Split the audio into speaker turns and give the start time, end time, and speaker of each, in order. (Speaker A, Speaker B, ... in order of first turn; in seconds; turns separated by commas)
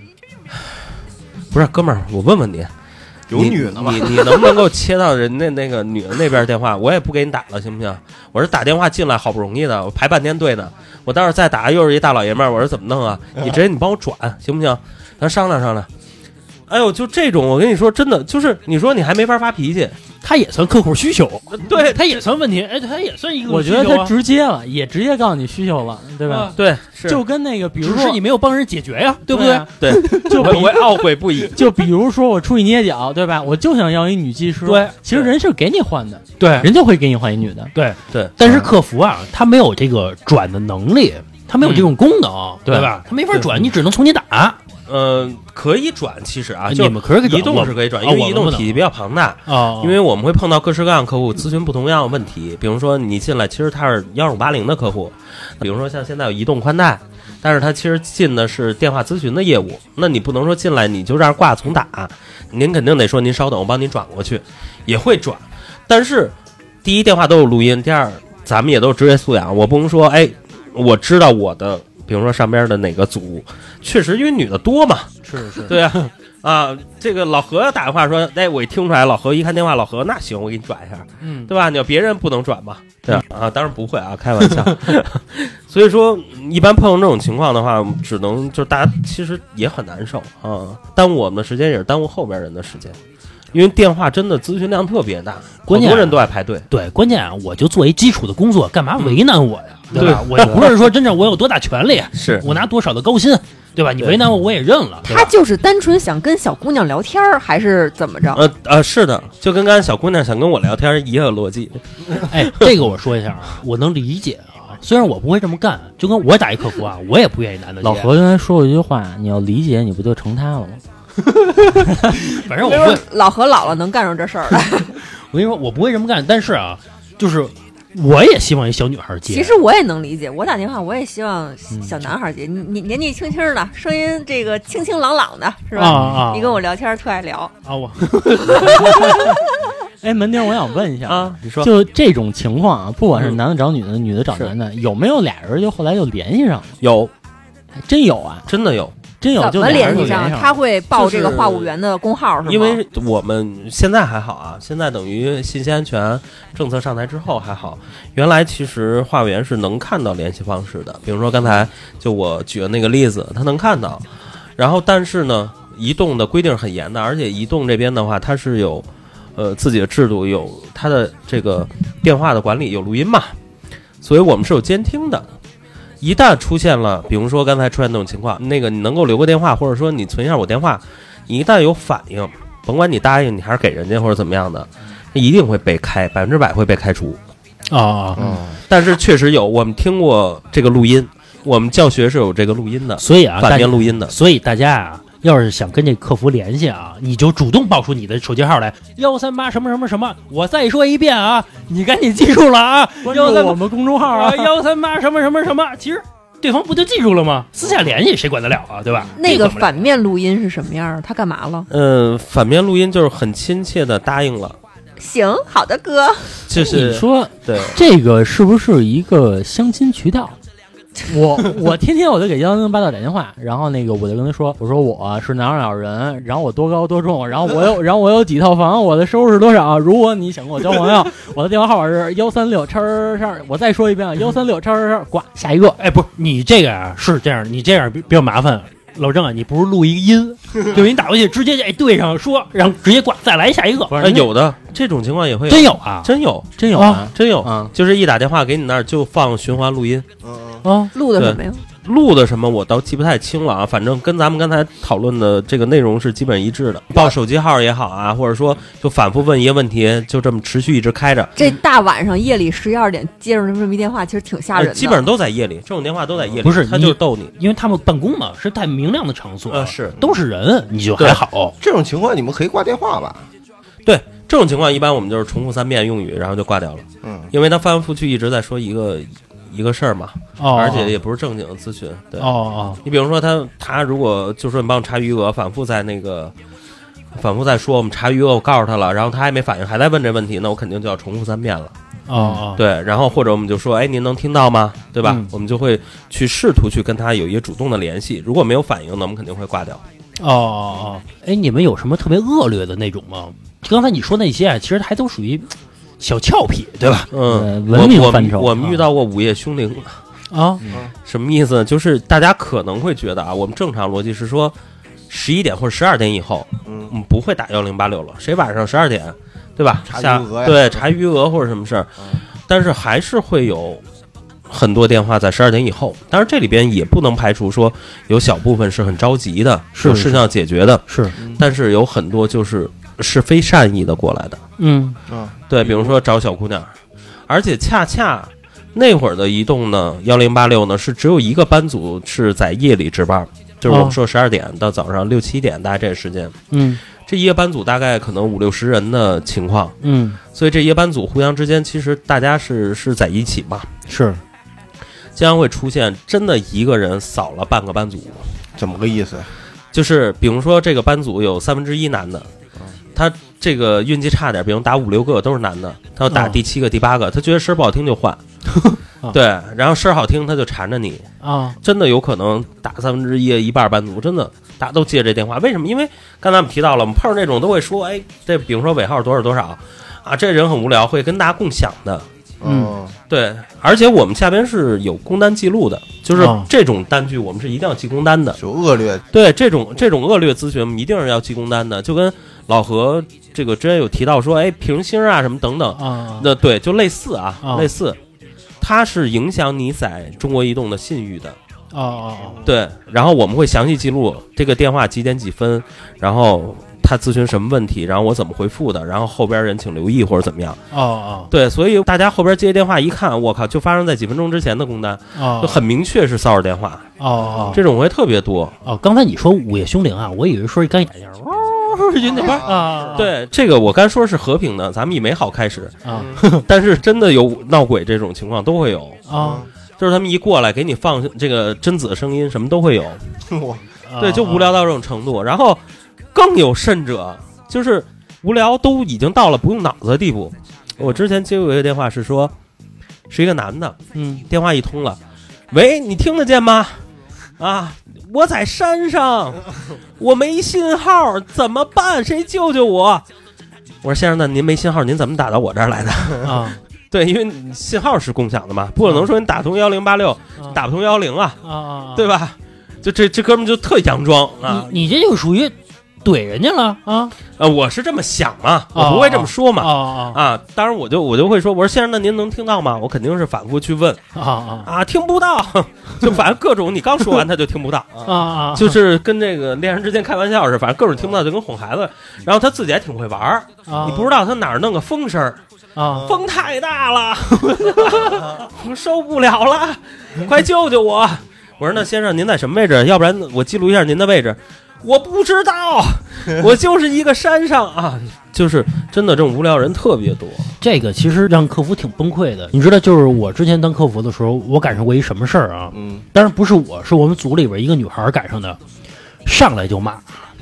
Speaker A: 0.5-0.8, Speaker A: 1.5-2.7, Speaker B: 3.3-4.6, Speaker A: 3.3-15.9, Speaker A: 16.7-20.0, Speaker C: 20.2-24.1, Speaker A: 21.5-22.2, Speaker D: 23.5-26.5, Speaker C: 26.3-26.5, Speaker A: 26.6-27.2, Speaker D: 27.1-28.2, Speaker C: 27.8-30.8, Speaker D: 29.3-30.7, Speaker A: 29.8-31.6, Speaker D: 31.5-37.7, Speaker C: 34.7-35.0, Speaker C: 36.4-36.7, Speaker C: 37.8-44.6, Speaker D: 41.6-41.9, Speaker D: 42.7-42.9, Speaker A: 44.9-93.0, Speaker C: 46.7-48.8, Speaker C: 49.5-50.0, Speaker C: 75.2-76.0, Speaker C: 81.2-81.5, Speaker A: 93.5-96.7, Speaker C: 95.7-105.3, Speaker A: 99.9-100.7, Speaker A: 102.1-102.5, Speaker E: 105.0-108.4, Speaker A: 108.3-111.8, Speaker C: 112.3-118.1, Speaker A: 112.4-112.7, Speaker D: 117.8-120.8, Speaker C: 121.7-123.0, Speaker E: 122.6-124.9, Speaker C: 125.2-129.6, Speaker E: 129.3-137.5, Speaker C: 135.8-136.6, Speaker D: 135.9-136.2, Speaker C: 137.7-139.3, Speaker E: 138.6-138.9, Speaker D: 138.7-139.1, Speaker D: 140.0-146.8, Speaker A: 141.1-141.7, Speaker A: 143.1-143.4, Speaker A: 146.8-147.1, Speaker D: 147.8-148.5, Speaker A: 148.5-149.0, Speaker D: 149.2-150.6, Speaker E: 149.4-152.8, Speaker A: 149.6-150.2, Speaker A: 150.9-151.7, Speaker A: 152.4-164.1, Speaker A: 164.6-173.3, Speaker A: 174.0-175.3, Speaker A: 176.0-187.2, Speaker C: 187.7-188.4, Speaker B: 188.2-188.6, Speaker A: 188.7-194.2, Speaker C: 193.0-209.9, Speaker D: 203.0-204.5, Speaker E: 209.2-211.7, Speaker A: 211.7-214.6, Speaker E: 215.0-216.4, Speaker A: 216.5-217.8, Speaker D: 216.5-220.4, Speaker D: 221.1-235.8, Speaker C: 235.8-244.1, Speaker D: 243.9-244.3, Speaker A: 244.0-250.1, Speaker C: 245.5-246.1, Speaker D: 246.6-247.7, Speaker C: 246.7-247.1, Speaker B: 250.2-250.7, Speaker C: 250.6-250.9, Speaker E: 250.9-251.6, Speaker A: 251.2-261.3, Speaker E: 261.4-265.0, Speaker A: 264.5-267.3, Speaker C: 266.4-271.6, Speaker A: 269.5-270.0, Speaker B: 271.6-273.3, Speaker A: 273.9-286.4, Speaker B: 277.0-277.3, Speaker C: 280.4-280.9, Speaker C: 282.2-282.8, Speaker A: 287.1-291.7, Speaker C: 292.1-292.6, Speaker A: 292.6-299.8, Speaker C: 295.0-295.3, Speaker C: 300.2-307.1, Speaker A: 307.1-310.0, Speaker D: 307.2-308.8, Speaker C: 310.3-310.6, Speaker A: 311.1-314.6, Speaker A: 315.1-323.8, Speaker B: 316.7-316.9, Speaker B: 319.9-320.8, Speaker A: 324.5-334.4, Speaker C: 329.8-330.2, Speaker C: 330.9-331.1, Speaker C: 334.6-335.0, Speaker B: 335.1-335.9, Speaker A: 335.5-336.8, Speaker A: 337.3-346.4, Speaker C: 343.7-344.0, Speaker C: 346.5-346.8, Speaker A: 347.0-349.8, Speaker C: 349.8-350.2, Speaker A: 350.3-353.7, Speaker C: 353.9-354.2, Speaker A: 355.2-358.3, Speaker B: 358.6-359.3, Speaker A: 359.7-362.3, Speaker A: 362.9-368.2, Speaker C: 366.1-366.4, Speaker C: 368.6-369.2, Speaker A: 369.1-371.1, Speaker C: 371.2-371.6, Speaker A: 371.6-382.1, Speaker B: 382.4-382.9, Speaker C: 382.4-382.8, Speaker A: 383.1-388.4, Speaker C: 386.1-386.5, Speaker B: 388.4-389.0, Speaker A: 389.1-398.0, Speaker C: 395.8-396.3, Speaker C: 397.4-397.7, Speaker A: 398.6-401.4, Speaker C: 401.7-402.4, Speaker A: 402.4-410.6, Speaker C: 410.7-411.3, Speaker A: 411.3-416.9, Speaker C: 415.1-415.6, Speaker C: 417.0-417.6, Speaker B: 417.1-417.6, Speaker A: 417.5-418.6, Speaker C: 418.6-423.1, Speaker B: 422.0-423.0, Speaker A: 422.9-429.0, Speaker C: 425.8-426.4, Speaker B: 425.9-426.2, Speaker C: 429.1-429.4, Speaker B: 429.1-429.5, Speaker A: 429.8-433.1, Speaker B: 433.3-433.6, Speaker C: 433.9-434.6, Speaker A: 434.0-435.6, Speaker A: 436.1-442.3, Speaker A: 443.1-445.0, Speaker C: 443.9-444.2, Speaker A: 445.5-446.8, Speaker A: 447.4-449.4, Speaker A: 450.0-453.1, Speaker A: 453.8-456.4, Speaker C: 456.2-456.6, Speaker A: 456.9-461.4, Speaker C: 461.4-462.1, Speaker A: 461.9-464.7, Speaker C: 464.4-467.1, Speaker A: 467.4-474.0, Speaker C: 468.8-470.2, Speaker C: 474.1-474.7, Speaker A: 474.6-477.9, Speaker B: 477.9-478.2, Speaker C: 478.1-478.8, Speaker A: 478.5-485.4, Speaker C: 483.7-484.0, Speaker B: 483.8-484.1, Speaker C: 485.8-486.1, Speaker B: 485.9-486.2, Speaker A: 486.0-500.5, Speaker B: 488.1-488.4, Speaker C: 500.6-508.6, Speaker B: 505.7-506.1, Speaker C: 509.3-510.2